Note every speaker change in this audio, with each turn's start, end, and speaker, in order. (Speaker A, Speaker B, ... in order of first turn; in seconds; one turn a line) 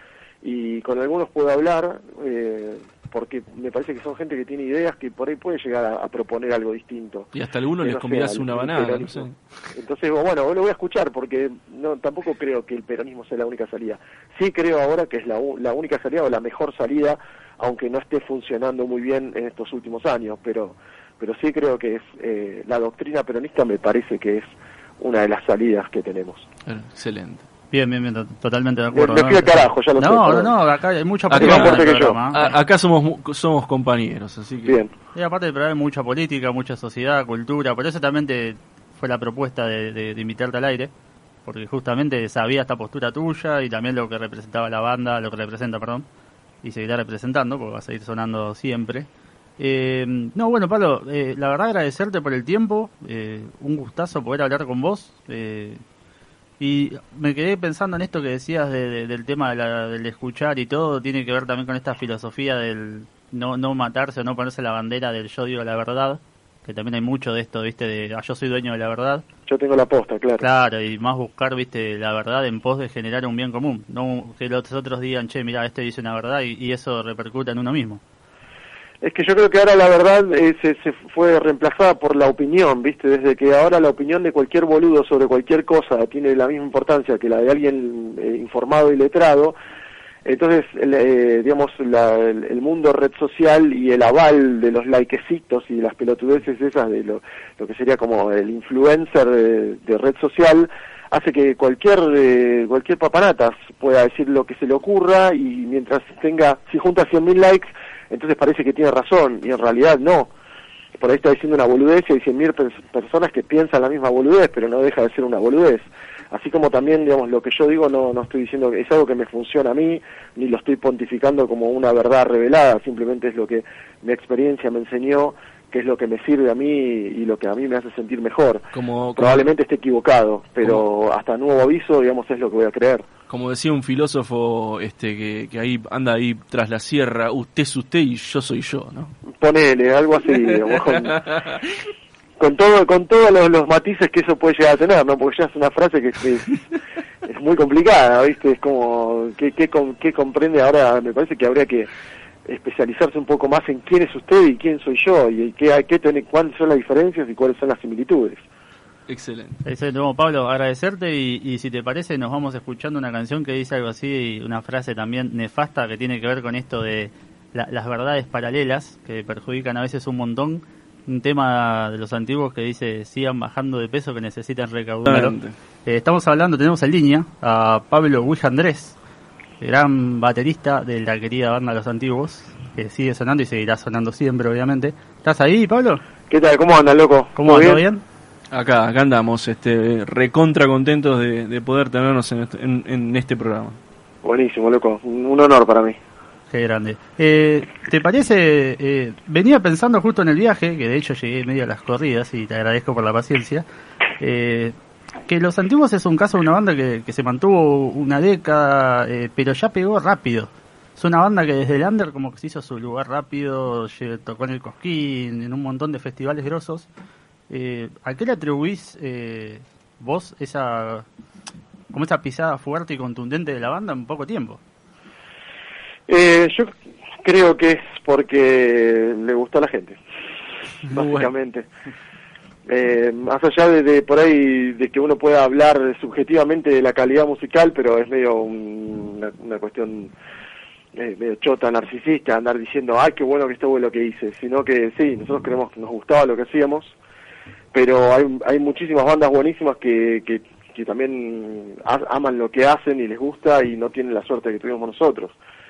Speaker A: 0.4-7.3
Speaker B: 7.3-9.3
Speaker A: 7.8-26.4
Speaker B: 26.6-27.4
Speaker C: 27.7-32.5
Speaker A: 28.9-30.5
Speaker B: 31.3-34.8
Speaker A: 31.3-32.2
Speaker A: 34.6-34.9
Speaker C: 35.1-40.9
Speaker C: 41.5-46.0
Speaker C: 46.6-49.1
Speaker C: 49.6-55.8
Speaker C: 56.6-69.2
Speaker A: 69.5-70.4
Speaker C: 70.4-78.0
Speaker A: 79.0-89.5
Speaker A: 90.2-110.3
Speaker A: 111.0-128.6
Speaker B: 128.7-129.5
Speaker A: 129.2-133.1
Speaker B: 133.3-139.1
Speaker A: 139.3-141.2
Speaker B: 140.5-141.8
Speaker A: 142.4-146.6
Speaker A: 147.2-151.9
Speaker A: 152.4-158.4
Speaker B: 159.1-159.6
Speaker C: 159.7-178.9
Speaker B: 175.1-175.5
Speaker C: 179.6-186.0
Speaker A: 186.3-187.8
Speaker C: 187.4-188.0
Speaker B: 188.5-193.8
Speaker A: 194.2-196.0
Speaker C: 196.5-203.6
Speaker C: 204.2-204.8
Speaker C: 205.3-216.9
Speaker C: 217.5-221.1
Speaker C: 221.9-224.6
Speaker A: 226.1-230.0
Speaker B: 230.9-231.3
Speaker A: 230.9-231.7
Speaker A: 232.7-240.1
Speaker A: 240.9-246.9
Speaker A: 247.7-255.3